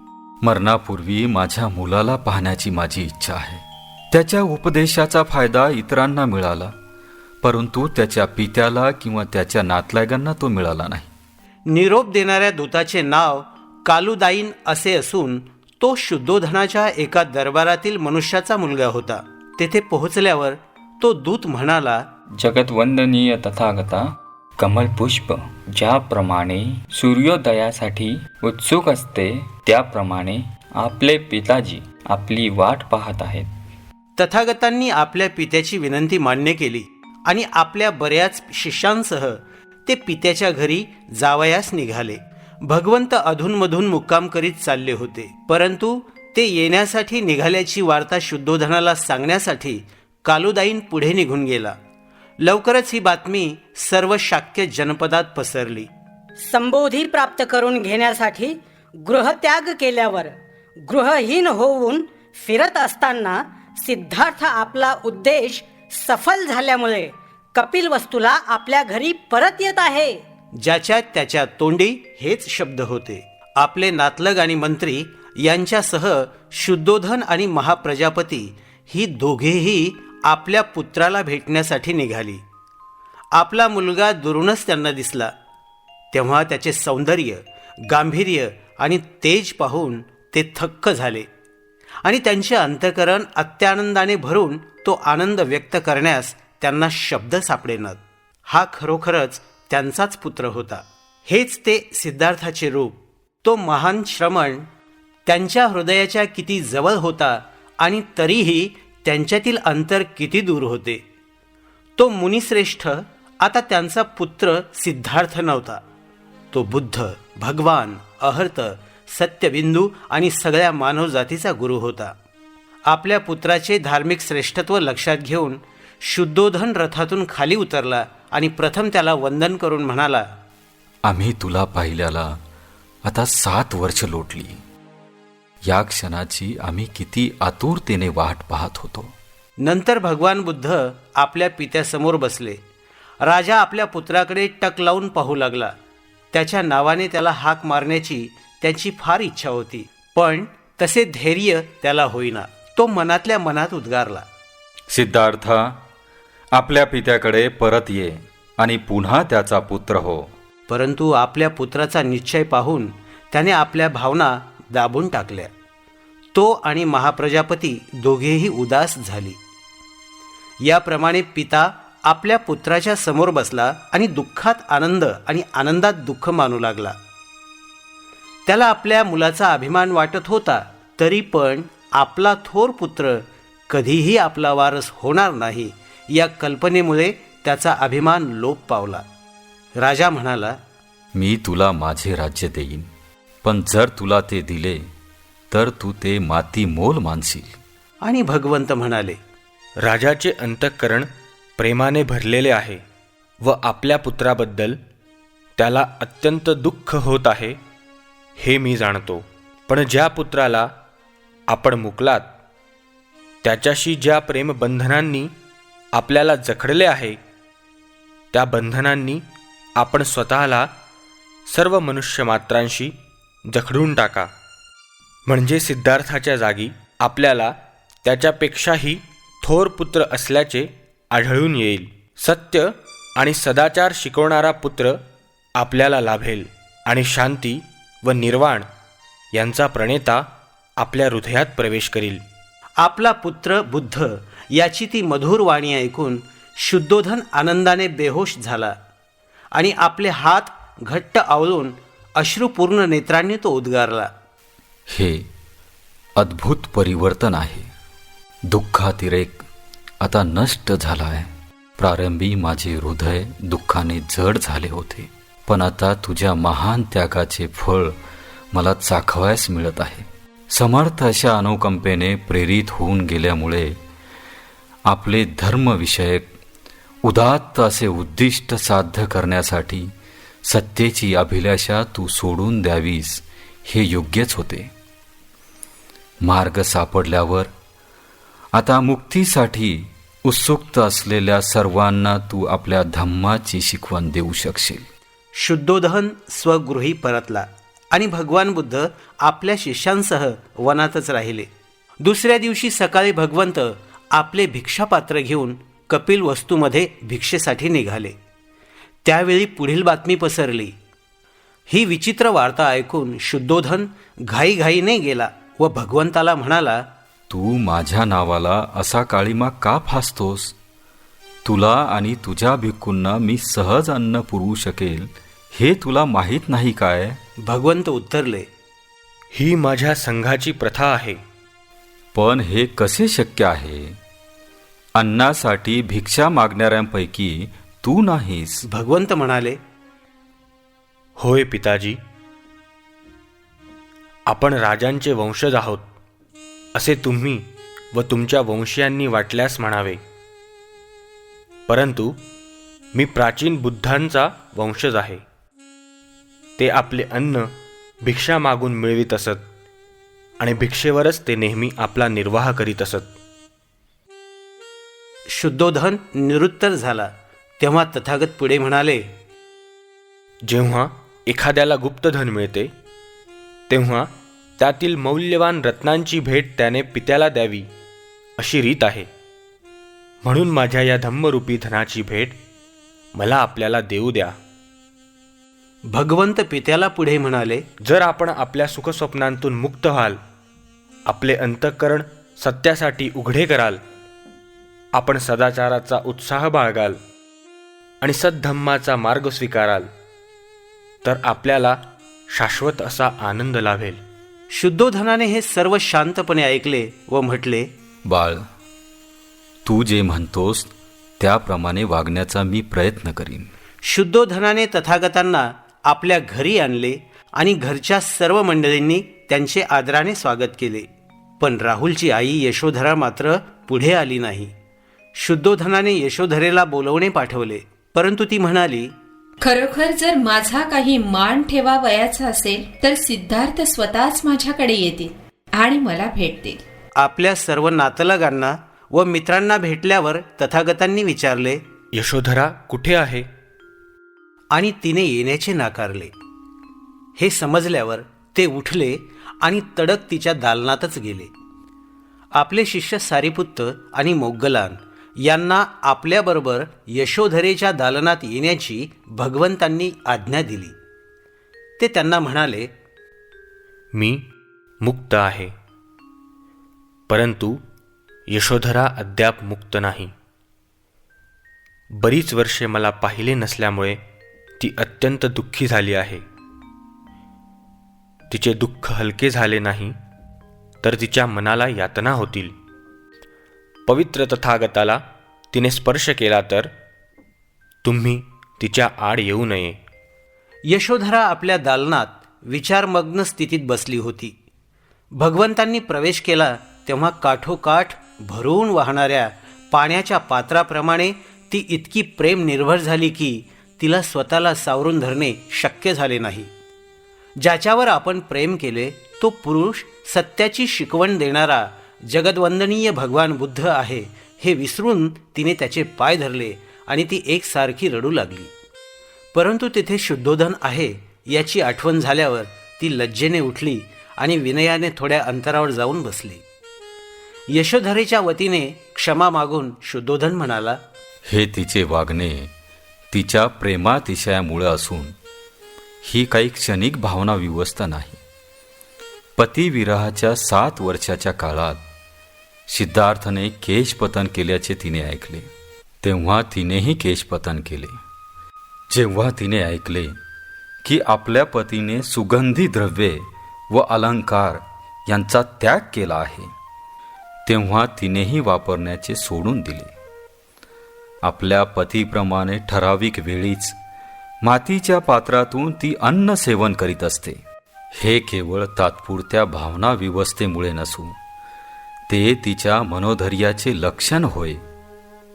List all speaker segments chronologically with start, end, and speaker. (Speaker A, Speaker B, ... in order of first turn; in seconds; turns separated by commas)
Speaker A: 0.4-6.7, Speaker A: 7.4-11.1, Speaker B: 11.7-22.1, Speaker C: 22.4-33.5, Speaker B: 34.2-51.8, Speaker B: 52.4-55.9, Speaker D: 56.4-70.2, Speaker B: 70.6-82.4, Speaker B: 83.3-85.3, Speaker B: 86.1-91.3, Speaker B: 92.0-104.7, Speaker B: 105.2-111.0, Speaker B: 112.0-115.8, Speaker B: 116.5-122.2, Speaker B: 122.9-130.3, Speaker A: 131.0-132.4, Speaker A: 133.0-134.6, Speaker A: 135.6-139.1, Speaker B: 139.6-142.6, Speaker B: 143.2-145.7, Speaker B: 146.3-154.3, Speaker A: 154.9-155.8, Speaker A: 156.5-160.3, Speaker B: 160.7-165.5, Speaker B: 166.3-169.4, Speaker B: 170.6-177.0, Speaker B: 178.5-189.0, Speaker B: 189.8-190.6, Speaker A: 191.1-192.9, Speaker A: 193.4-194.9, Speaker A: 195.5-197.6, Speaker B: 198.0-199.2, Speaker E: 199.8-202.8, Speaker E: 203.4-204.8, Speaker E: 205.6-207.6, Speaker E: 208.4-210.7, Speaker E: 211.5-212.3, Speaker E: 213.4-215.3, Speaker E: 215.9-217.2, Speaker E: 218.3-219.2, Speaker E: 219.8-220.7, Speaker E: 221.5-222.9, Speaker E: 223.5-224.3, Speaker E: 225.3-235.0, Speaker E: 235.6-238.7, Speaker E: 239.3-242.2, Speaker B: 242.8-248.8, Speaker B: 249.6-254.1, Speaker A: 254.9-255.3, Speaker A: 256.1-257.7, Speaker A: 258.5-259.4, Speaker A: 260.0-267.9, Speaker A: 268.5-273.8, Speaker A: 274.9-276.3, Speaker A: 277.0-279.9, Speaker A: 280.4-284.7, Speaker A: 286.2-287.5, Speaker A: 288.5-294.8, Speaker B: 295.4-301.5, Speaker B: 302.0-308.1, Speaker B: 309.0-310.7, Speaker B: 311.7-316.9, Speaker A: 317.3-320.5, Speaker A: 321.4-327.2, Speaker B: 327.4-328.5, Speaker E: 329.3-331.2, Speaker A: 332.1-334.0, Speaker A: 334.9-338.6, Speaker B: 338.7-339.6, Speaker E: 341.2-342.0, Speaker E: 344.3-345.9, Speaker E: 346.7-350.0, Speaker E: 351.7-352.2, Speaker E: 352.9-355.2, Speaker E: 356.6-357.5, Speaker E: 358.0-359.4, Speaker E: 360.4-363.1, Speaker B: 365.3-369.1, Speaker E: 370.4-372.7, Speaker E: 373.7-377.7, Speaker E: 378.4-379.1, Speaker E: 380.2-382.4, Speaker E: 383.1-384.4, Speaker B: 385.9-387.6, Speaker E: 387.8-390.2, Speaker E: 391.1-393.8, Speaker E: 394.9-397.0, Speaker E: 398.0-399.9, Speaker E: 401.0-401.8, Speaker E: 402.3-404.0, Speaker B: 404.5-407.7, Speaker A: 408.0-408.5, Speaker A: 409.6-413.5, Speaker B: 413.8-420.9, Speaker B: 421.4-424.5, Speaker B: 425.2-428.9, Speaker F: 429.4-436.6, Speaker B: 437.0-441.6, Speaker E: 441.9-443.3, Speaker B: 444.5-446.1, Speaker B: 447.2-451.3, Speaker B: 452.3-460.7, Speaker B: 461.8-462.7, Speaker E: 463.9-464.2, Speaker E: 464.8-465.5, Speaker E: 467.1-467.6, Speaker E: 468.3-470.1, Speaker E: 471.9-474.0, Speaker E: 474.6-476.2, Speaker E: 478.3-479.9, Speaker E: 480.8-482.5, Speaker E: 483.9-486.7, Speaker E: 487.8-489.8, Speaker B: 490.7-494.3, Speaker B: 495.1-506.5, Speaker B: 507.4-518.5, Speaker B: 519.3-526.4, Speaker B: 527.5-530.8, Speaker A: 531.3-532.5, Speaker A: 533.1-535.1, Speaker A: 536.0-538.2, Speaker A: 539.4-541.8, Speaker A: 542.7-545.5, Speaker A: 546.0-548.0, Speaker A: 548.9-550.2, Speaker A: 550.8-556.5, Speaker A: 557.5-559.9, Speaker A: 561.2-563.8, Speaker A: 564.4-567.4, Speaker A: 567.9-571.2, Speaker A: 572.1-574.6